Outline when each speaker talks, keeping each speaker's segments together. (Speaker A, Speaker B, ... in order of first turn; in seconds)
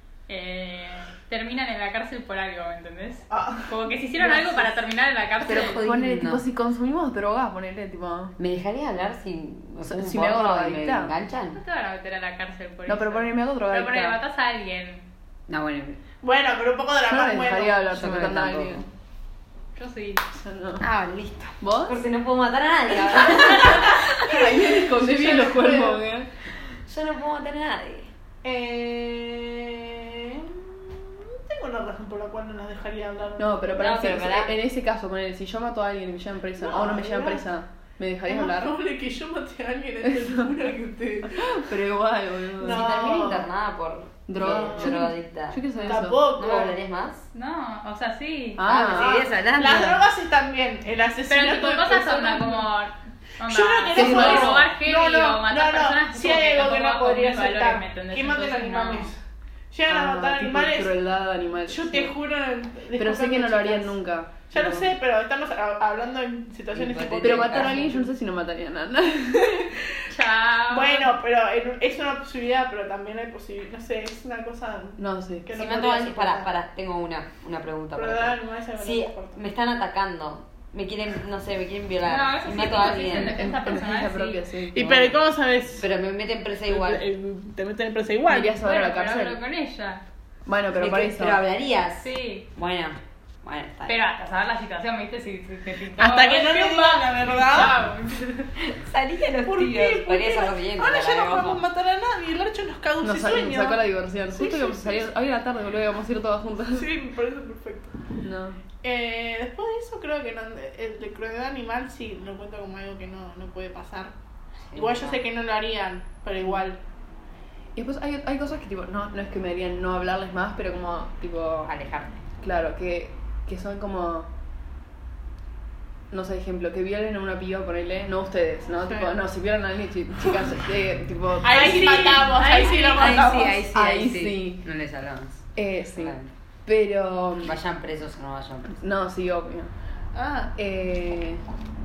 Speaker A: 0.3-5.9, 11.5-15.0, 19.8-20.2, 47.3-48.7, 51.3-59.1, 70.1-71.1, 82.1-84.4, 88.6-90.0, 92.0-92.5, 93.9-98.5, 131.5-133.3
Speaker B: 3.3-3.7, 16.2-18.0, 24.8-26.2, 28.4-33.9, 36.6-37.4, 38.3-41.6, 42.6-43.5, 44.4-45.0, 45.8-46.8, 48.7-52.7, 53.4-59.2, 59.7-60.9, 61.7-63.9, 64.5-68.0, 69.4-70.0, 70.7-76.5, 78.0-79.4, 84.7-85.9, 86.7-88.6, 96.0-97.8, 99.4-105.1, 106.7-108.1, 108.8-114.1, 114.8-116.8, 131.4-133.7, 140.1-140.5
Speaker C: 4.2-4.7, 5.5-8.4, 9.8-11.1, 12.9-14.2, 17.0-18.9, 20.4-20.8, 21.6-22.0, 23.6-26.3, 33.4-38.8, 40.1-40.5, 41.4-43.1, 44.3-46.2, 48.6-49.2, 54.0-54.7, 59.9-62.1, 63.0-64.9, 67.2-69.7, 75.0-75.6, 83.1-85.1, 88.3-89.4, 90.5-91.4, 103.0-106.9, 108.2-108.6, 117.8-121.7, 122.4-124.3, 126.1-132.2, 133.7-134.6, 135.6-137.6, 138.7-139.7, 140.6-141.4
Speaker D: 5.5-6.4, 8.4-11.6, 15.5-16.0, 17.9-18.8, 20.8-24.1, 26.9-28.1, 33.8-34.5, 42.6-47.3, 48.7-50.0, 54.0-54.6, 66.7-68.0, 75.5-83.5, 84.8-85.2, 85.8-87.0, 90.8-94.0, 98.6-101.6, 114.7-115.2, 121.7-122.2, 133.0-136.3, 137.4-138.8